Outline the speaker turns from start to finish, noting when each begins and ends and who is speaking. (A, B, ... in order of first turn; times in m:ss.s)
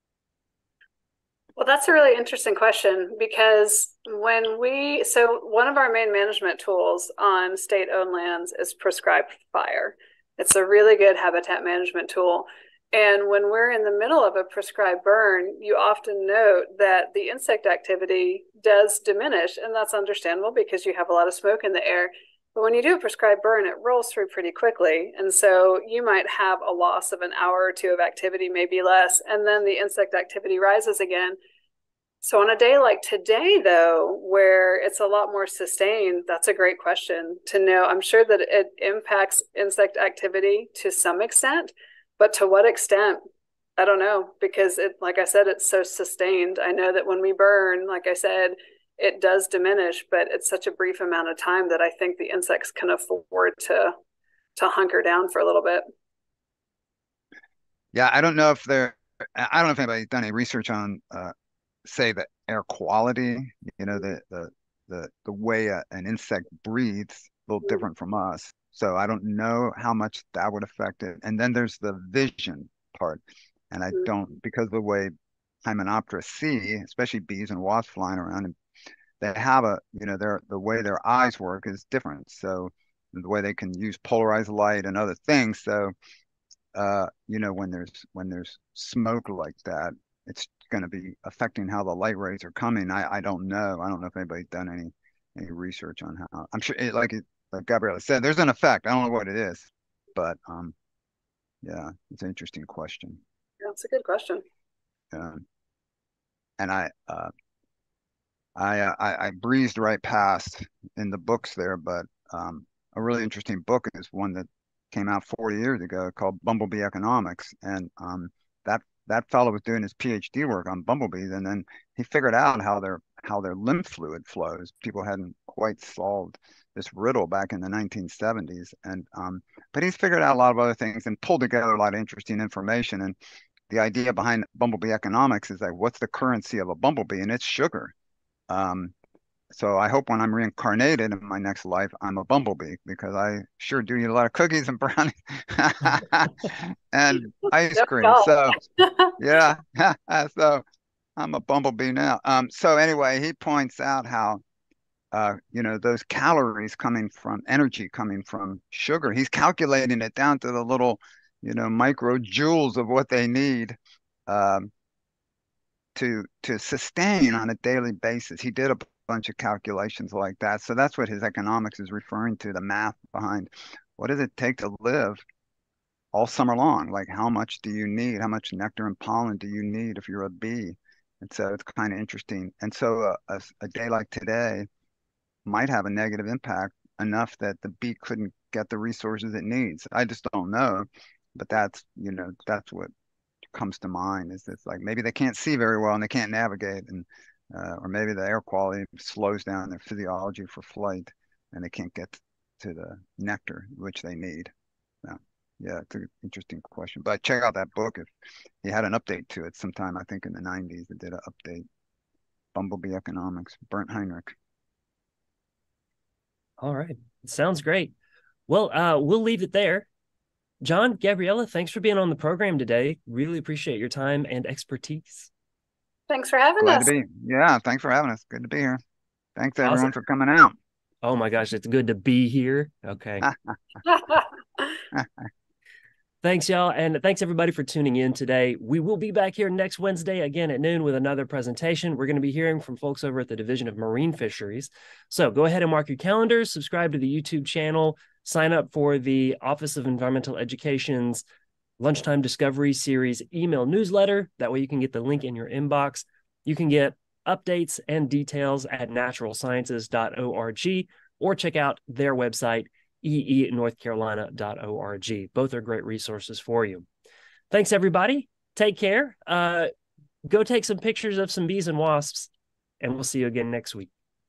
0:01.6-0:31.4 A
0:32.2-0:43.2 A
0:43.8-0:54.0 A
0:54.6-0:55.8 A
0:57.9-1:01.3 B
1:01.8-1:15.1 B
1:15.6-1:18.5 B
1:19.2-1:25.9 B
1:26.7-1:40.7 B
1:41.6-1:43.2 B
1:43.6-1:44.4 A
1:45.1-1:45.4 B
1:46.6-1:47.3 B
1:48.6-2:13.1 B
2:13.7-2:17.9 B
2:18.5-2:18.9 B
2:19.5-2:28.6 B
2:27.8-2:29.1 A
2:29.2-2:30.6 B
2:31.2-2:34.4 B
2:35.1-2:44.7 B
2:45.9-2:55.2 B
2:56.1-3:04.7 B
3:05.4-3:12.9 B
3:13.5-3:24.5 B
3:25.0-3:28.1 B
3:28.6-3:31.6 B
3:32.5-3:34.3 B
3:36.6-3:37.9 C
3:38.5-3:39.9 C
3:40.6-3:45.3 C
3:46.1-3:46.9 A
3:46.6-3:48.8 B
3:49.4-3:50.6 B
3:49.6-3:49.9 C
3:51.0-3:53.3 C
3:53.9-3:54.2 A
3:56.2-4:11.2 C
4:11.8-4:26.8 C
4:27.5-4:29.7 C
4:30.2-4:33.9 C